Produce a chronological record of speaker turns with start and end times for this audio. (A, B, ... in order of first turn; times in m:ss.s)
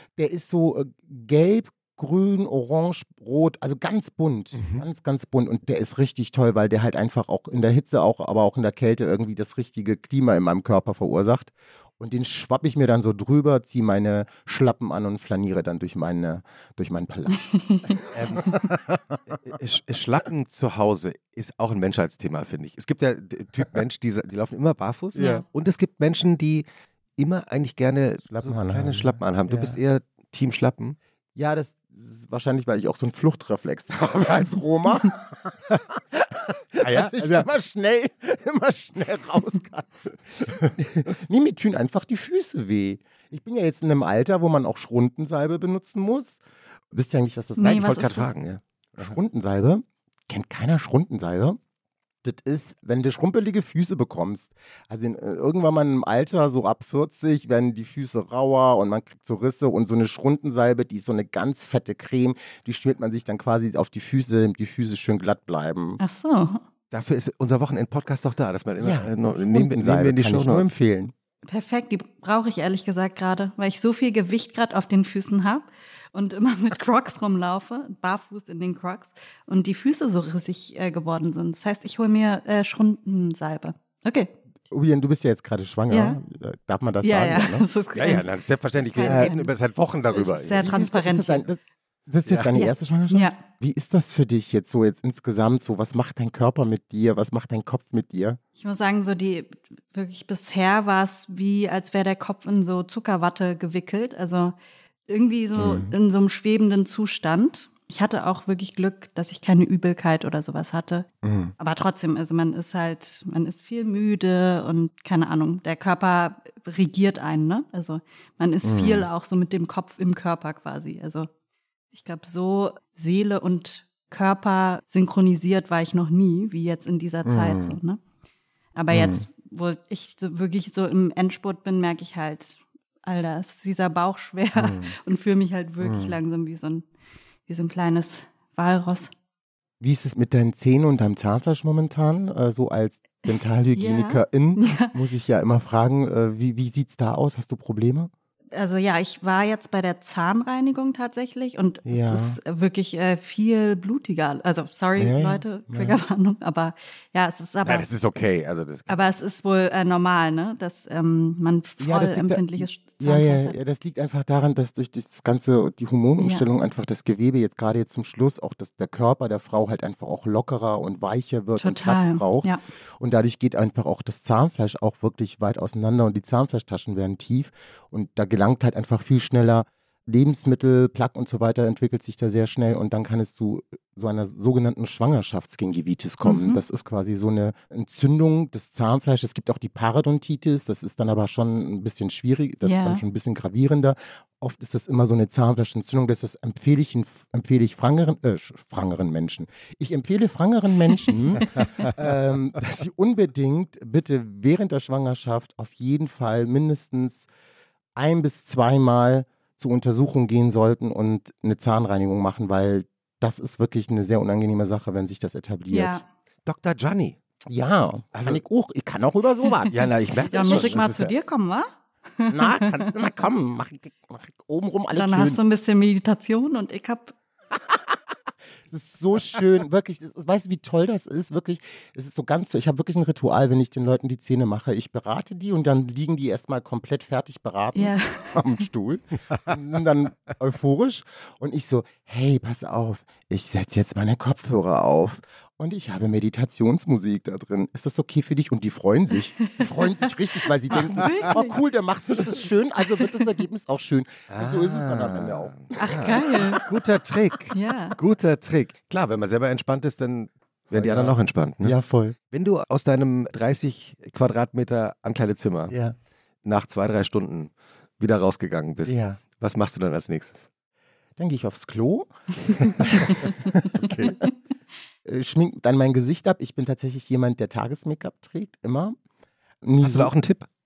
0:00.2-0:18.6 A
0:04.6-0:04.8 B
0:17.5-0:18.0 C
0:18.1-0:26.6 B
0:25.1-0:25.4 C
0:27.2-0:31.0 B
0:28.3-0:29.8 A
0:31.4-0:48.1 A
0:36.8-0:37.4 B
0:47.6-0:48.3 C
0:47.6-0:49.2 B
0:49.0-0:51.6 A
0:52.2-1:06.0 A
1:06.0-1:06.6 C
1:06.9-1:10.7 B
1:08.8-1:11.1 A
1:11.4-1:24.3 C
1:24.7-1:27.6 A
1:25.9-1:26.2 C
1:27.0-1:29.5 C
1:27.9-1:30.7 B
1:29.0-1:29.4 A
1:30.1-1:31.4 C
1:30.6-1:38.4 A
1:32.3-1:32.5 B
1:32.5-1:33.4 C
1:38.6-1:44.5 C
1:45.1-1:51.1 C
1:45.6-1:45.9 A
1:51.2-1:51.5 A
1:51.6-2:01.3 C
1:58.6-1:59.1 A
2:01.9-2:08.0 C
2:07.2-2:07.8 A
2:08.7-2:16.9 C
2:08.9-2:09.2 A
2:14.6-2:14.9 A
2:15.8-2:16.1 A
2:17.4-2:19.1 C
2:19.8-2:28.1 A
2:23.7-2:24.9 C
2:28.5-2:37.9 C
2:31.8-2:32.4 A
2:35.0-2:36.0 A
2:37.6-2:39.0 B
2:38.9-2:43.6 C
2:41.8-3:27.3 A
2:46.2-2:46.4 C
2:51.6-2:52.6 C
3:06.2-3:06.6 C
3:12.6-3:13.0 C
3:28.0-3:36.0 A
3:35.7-3:36.0 C
3:36.4-3:37.2 B
3:37.5-3:40.9 A
3:38.1-3:38.4 B
3:39.7-3:41.1 B
3:40.3-3:42.9 C
3:42.3-3:45.4 A
3:44.9-3:47.1 C
3:47.6-3:48.0 A
3:48.6-4:16.6 A
3:57.7-3:58.4 C
4:09.4-4:11.6 C
4:10.7-4:11.1 B
4:14.3-4:21.7 B
4:15.8-4:16.6 C
4:17.5-4:18.0 C
4:20.7-4:22.2 A
4:22.3-4:25.8 B
4:25.7-4:26.0 A
4:26.4-4:30.5 B
4:28.8-4:29.2 A
4:31.2-4:32.1 A
4:32.6-4:33.2 B
4:32.6-4:34.1 A
4:33.7-4:34.2 B
4:35.0-4:39.0 A
4:39.6-4:40.1 A
4:39.8-4:40.5 B